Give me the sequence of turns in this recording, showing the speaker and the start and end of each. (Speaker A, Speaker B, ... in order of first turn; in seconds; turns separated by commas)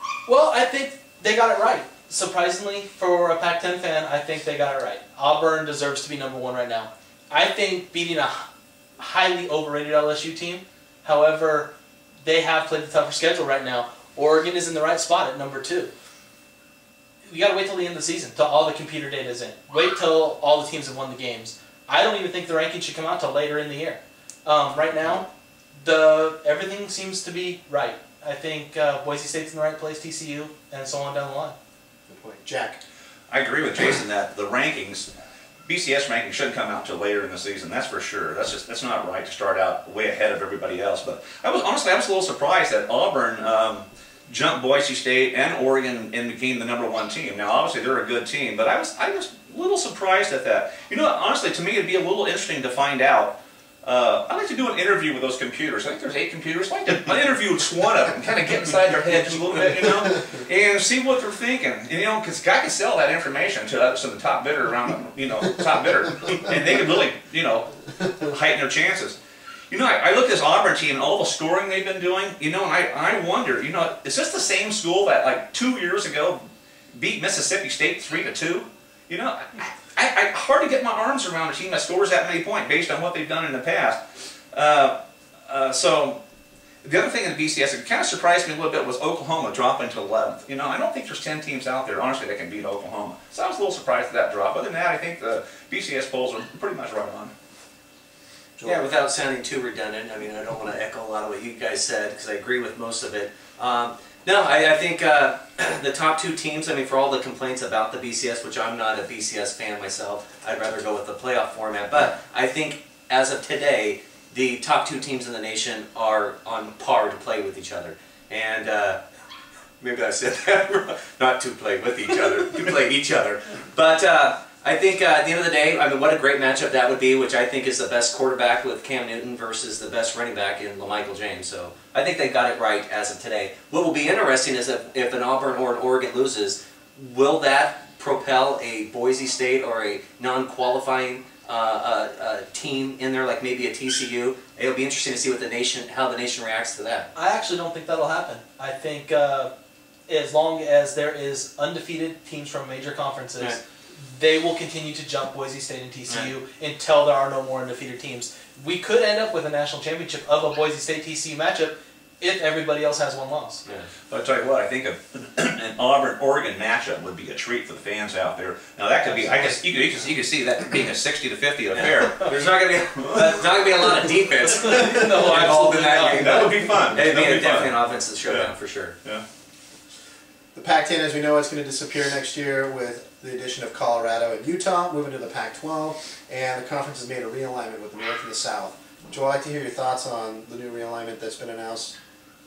Speaker A: 0.3-8.4, Speaker A: 9.0-11.7, Speaker A: 12.2-15.9, Speaker A: 17.2-25.2, Speaker A: 25.8-31.5, Speaker B: 32.1-32.8, Speaker C: 33.3-35.1, Speaker C: 35.6-69.2, Speaker C: 69.7-76.4, Speaker C: 76.9-86.2, Speaker C: 86.8-97.3, Speaker B: 98.6-98.8, Speaker D: 98.6-119.0, Speaker D: 119.8-147.1, Speaker A: 147.2-149.5, Speaker A: 150.1-163.6, Speaker C: 164.1-172.3, Speaker A: 169.0-169.6, Speaker D: 171.7-178.9, Speaker C: 172.9-173.4, Speaker A: 174.5-176.5, Speaker C: 176.2-178.5, Speaker B: 180.5-191.9